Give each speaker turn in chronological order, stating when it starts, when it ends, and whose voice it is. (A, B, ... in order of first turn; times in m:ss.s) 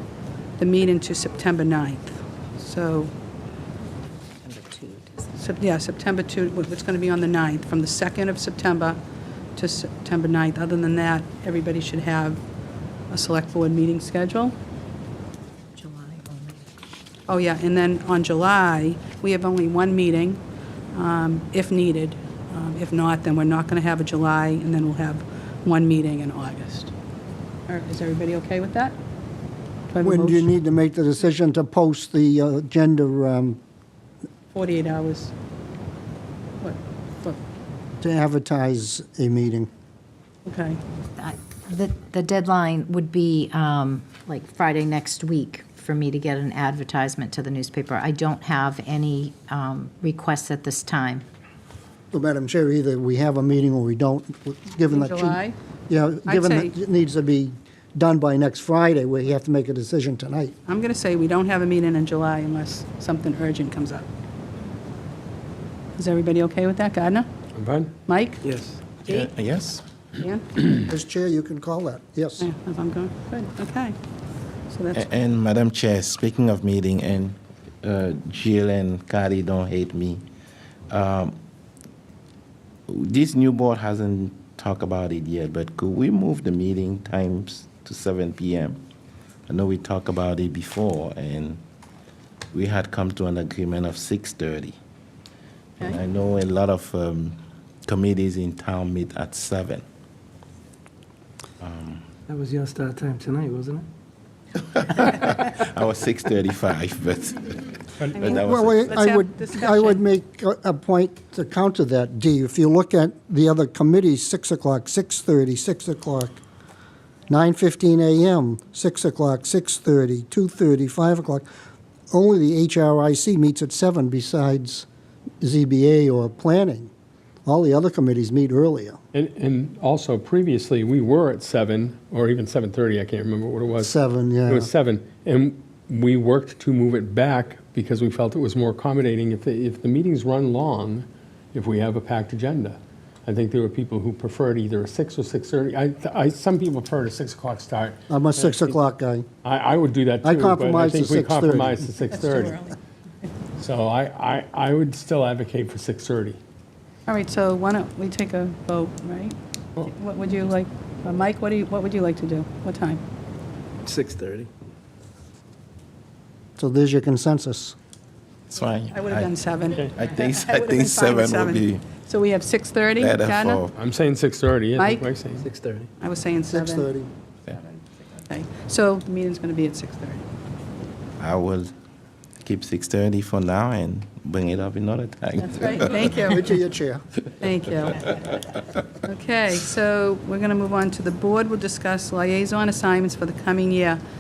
0:00.6-0:03.1 A
0:04.4-0:05.0 B
0:05.4-0:09.0 A
0:09.6-0:12.4 A
0:13.1-0:14.6 A
0:15.8-0:16.6 B
0:17.3-0:20.4 A
0:20.9-0:26.9 A
0:27.7-0:29.0 A
0:29.9-0:30.5 A
0:30.0-0:33.6 C
0:34.5-0:35.3 A
0:36.6-0:37.4 A
0:38.0-0:39.7 C
0:40.5-0:40.8 A
0:41.2-0:51.2 B
0:52.1-1:00.6 C
0:54.9-0:55.6 A
0:56.3-0:56.7 A
1:00.7-1:04.1 A
1:06.0-1:07.3 A
1:07.6-1:07.9 D
1:08.1-1:08.4 A
1:08.4-1:08.8 E
1:09.0-1:09.3 A
1:09.1-1:09.8 F
1:10.2-1:10.5 A
1:10.9-1:12.5 C
1:12.4-1:14.0 A
1:14.7-1:15.1 A
1:14.9-1:20.2 F
1:20.9-1:21.4 F
1:22.9-1:28.8 F
1:29.5-1:31.6 F
1:32.5-1:34.8 F
1:35.8-1:39.8 F
1:41.6-1:42.0 F
1:42.3-1:43.9 E
1:44.7-1:49.0 F
1:48.0-1:48.3 D
1:48.1-1:50.0 A
1:48.4-1:56.4 C
1:57.3-2:01.5 C
2:02.1-2:04.9 C
2:05.4-2:06.9 C
2:07.4-2:09.0 C
2:09.1-2:13.9 D
2:13.8-2:14.7 C
2:14.5-2:28.8 D
2:28.1-2:29.3 C
2:29.4-2:32.6 D
2:30.2-2:31.8 C
2:32.1-2:32.8 A
2:33.6-2:36.4 D
2:37.1-2:43.0 A
2:43.8-2:44.5 E
2:46.6-2:47.8 C
2:48.5-2:51.8 F
2:48.9-2:53.6 A
2:53.0-2:53.8 F
2:53.8-2:55.5 D
2:54.8-2:55.0 A
2:55.4-2:55.9 E
2:56.0-2:56.9 A
2:56.5-2:57.1 C
2:58.2-3:00.2 A
3:01.2-3:01.7 F
3:02.4-3:06.4 F
3:05.5-3:06.5 A
3:06.3-3:07.0 C
3:07.4-3:08.2 A
3:09.0-3:14.0 A